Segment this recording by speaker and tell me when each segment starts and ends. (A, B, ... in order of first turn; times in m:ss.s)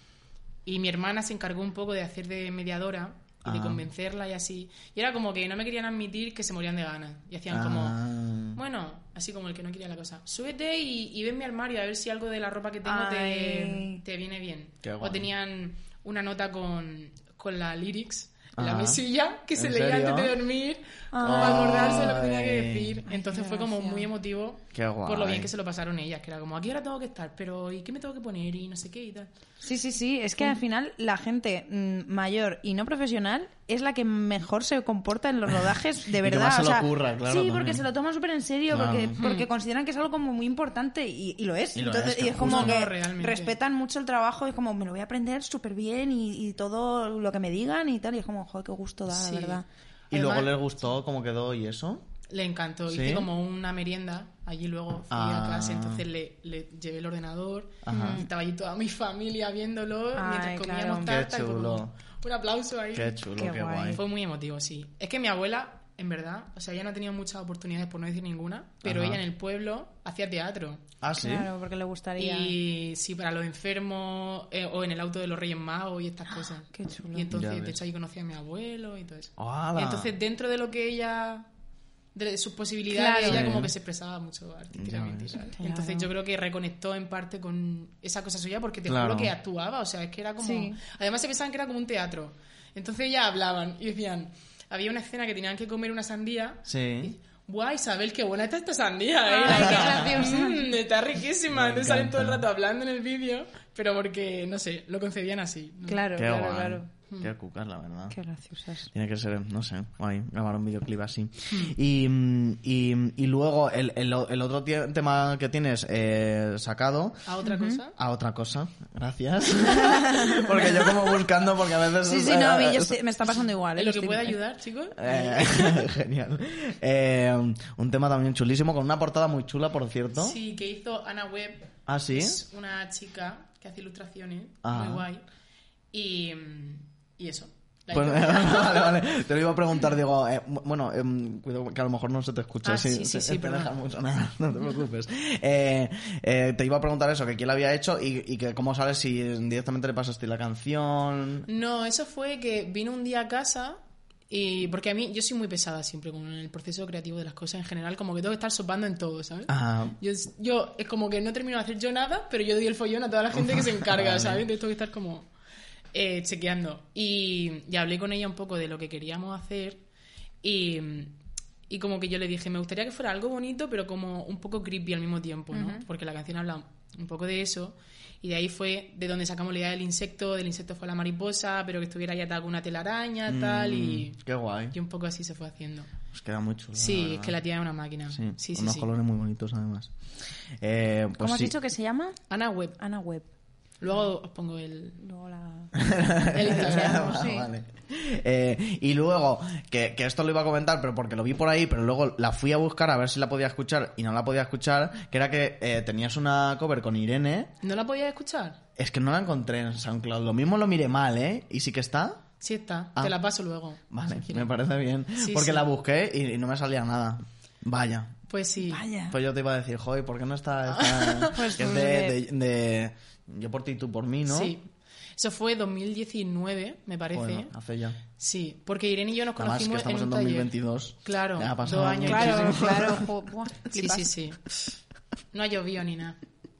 0:00.6-0:08.0 A
0:03.4-0:03.9 B
0:07.5-0:08.6 B
0:08.5-0:29.3 A
0:12.9-0:14.0 C
0:14.8-0:15.3 B
0:18.6-0:19.0 B
0:19.6-0:20.4 B
0:21.1-0:21.7 C
0:21.2-0:23.0 B
0:23.1-0:24.1 C
0:24.7-0:25.5 B
0:29.6-0:49.6 C
0:36.2-0:37.8 B
0:38.7-0:39.2 B
0:39.2-0:39.5 A
0:41.8-0:42.9 B
0:42.4-0:43.6 A
0:49.1-0:50.6 A
0:50.1-0:52.1 B
0:52.3-1:03.2 A
0:52.9-0:53.3 B
0:55.1-0:56.0 B
0:57.8-0:58.3 B
0:57.9-0:58.3 C
1:00.2-1:01.1 C
1:01.0-1:01.9 B
1:02.9-1:04.0 B
1:03.4-1:04.0 C
1:04.0-1:10.8 A
1:08.8-1:09.2 B
1:11.0-1:11.5 B
1:11.2-1:12.6 C
1:12.2-1:21.5 A
1:16.3-1:17.3 C
1:17.3-1:17.8 B
1:19.4-1:20.1 B
1:22.1-1:46.1 A
1:22.9-1:23.5 C
1:23.3-1:23.7 B
1:24.8-1:25.4 B
1:25.6-1:26.1 C
1:28.9-1:29.4 B
1:30.4-1:30.8 C
1:36.7-1:37.1 B
1:39.3-1:40.6 C
1:39.5-1:40.2 B
1:41.5-1:42.5 B
1:45.9-1:46.9 C
1:46.2-1:48.2 B
1:48.1-1:48.9 C
1:48.9-1:57.3 B
1:57.3-1:58.0 A
1:57.4-1:57.8 C
1:58.0-2:03.0 B
1:59.7-2:01.0 C
2:02.0-2:04.4 C
2:03.8-2:05.8 A
2:05.0-2:10.4 B
2:10.2-2:15.2 A
2:11.9-2:12.4 B
2:14.6-2:15.1 B
2:15.9-2:18.9 A
2:17.9-2:31.5 B
2:22.6-2:23.8 A
2:31.5-2:45.3 A
2:39.5-2:40.0 B
2:43.3-2:44.4 B
2:45.9-2:49.8 A
2:50.4-2:51.2 A
2:51.7-3:04.2 A
2:55.5-2:55.8 C
3:03.3-3:04.8 B
3:04.7-3:05.9 A
3:06.1-3:07.4 B
3:06.8-3:08.9 A
3:08.1-3:09.9 B
3:10.6-3:11.5 B
3:11.2-3:12.2 C
3:12.3-3:12.8 A
3:12.8-3:13.3 C
3:13.8-3:15.0 A
3:15.0-3:15.7 C
3:15.7-3:27.5 B
3:16.3-3:17.0 A
3:16.3-3:17.5 C
3:27.6-3:28.6 A
3:28.8-3:32.2 B
3:32.4-3:34.5 A
3:33.9-3:38.2 B
3:35.2-3:35.7 A
3:38.3-3:38.8 A
3:38.6-3:39.2 C
3:39.1-3:44.6 B
3:40.7-3:41.5 A
3:41.3-3:42.2 C
3:44.3-3:47.5 A
3:47.1-3:48.0 B
3:48.2-3:50.5 A
3:49.4-3:53.1 B
3:51.0-3:53.0 A
3:52.0-3:54.1 C
3:53.8-3:54.5 A
3:55.3-3:56.2 A